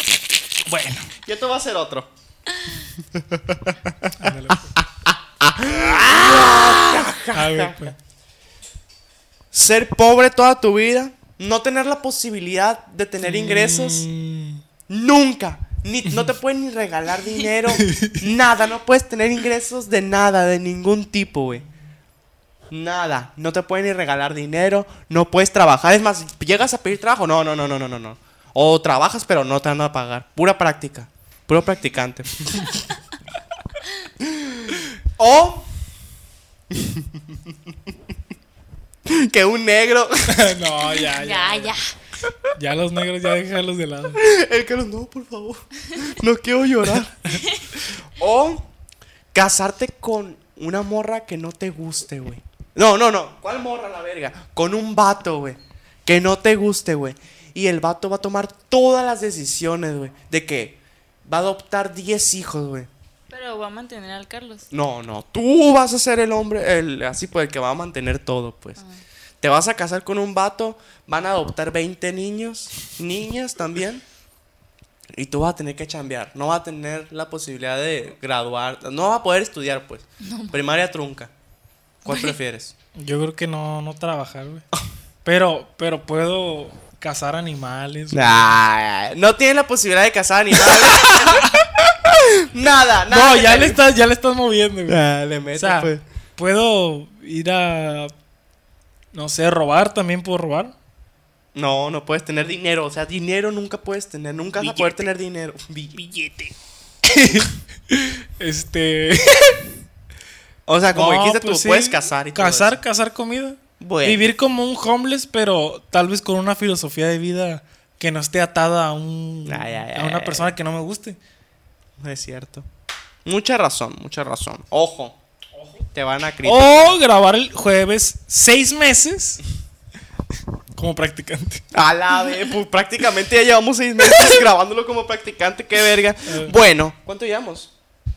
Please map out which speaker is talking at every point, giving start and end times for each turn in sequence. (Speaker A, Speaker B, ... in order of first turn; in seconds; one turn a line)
Speaker A: 0.7-1.1
Speaker B: 1.2-2.1
Speaker B: 3.1-7.9
Speaker A: 4.2-4.8
Speaker A: 5.7-6.3
Speaker A: 7.3-8.0
Speaker B: 9.5-14.1
Speaker A: 13.2-14.6
Speaker B: 14.9-21.6
Speaker A: 17.8-18.2
Speaker B: 22.7-32.8
Speaker B: 34.2-35.7
Speaker B: 36.7-37.6
Speaker B: 39.0-40.5
Speaker A: 40.3-41.8
Speaker C: 41.0-41.9
Speaker A: 42.5-44.2
Speaker B: 44.2-48.7
Speaker B: 49.3-62.9
Speaker C: 63.3-64.7
Speaker B: 64.7-68.8
Speaker C: 68.8-69.0
Speaker B: 69.4-74.0
Speaker B: 75.1-81.3
Speaker C: 80.2-80.6
Speaker C: 82.0-82.4
Speaker B: 82.0-82.8
Speaker A: 83.0-84.7
Speaker A: 85.2-88.5
Speaker B: 88.1-93.8
Speaker A: 90.7-91.6
Speaker A: 93.1-95.0
Speaker B: 94.9-96.0
Speaker A: 95.6-98.1
Speaker A: 99.1-100.8
Speaker B: 101.5-106.0
Speaker A: 104.6-105.1
Speaker A: 106.0-109.7
Speaker B: 110.7-112.8
Speaker A: 110.9-121.2
Speaker B: 113.8-114.3
Speaker B: 119.5-120.5
Speaker B: 122.0-122.7
Speaker B: 123.2-125.2
Speaker A: 125.5-125.8
Speaker B: 125.9-127.0
Speaker A: 126.4-129.4
Speaker A: 130.8-131.6
Speaker B: 131.7-137.7
Speaker A: 134.1-134.3
Speaker A: 136.3-136.6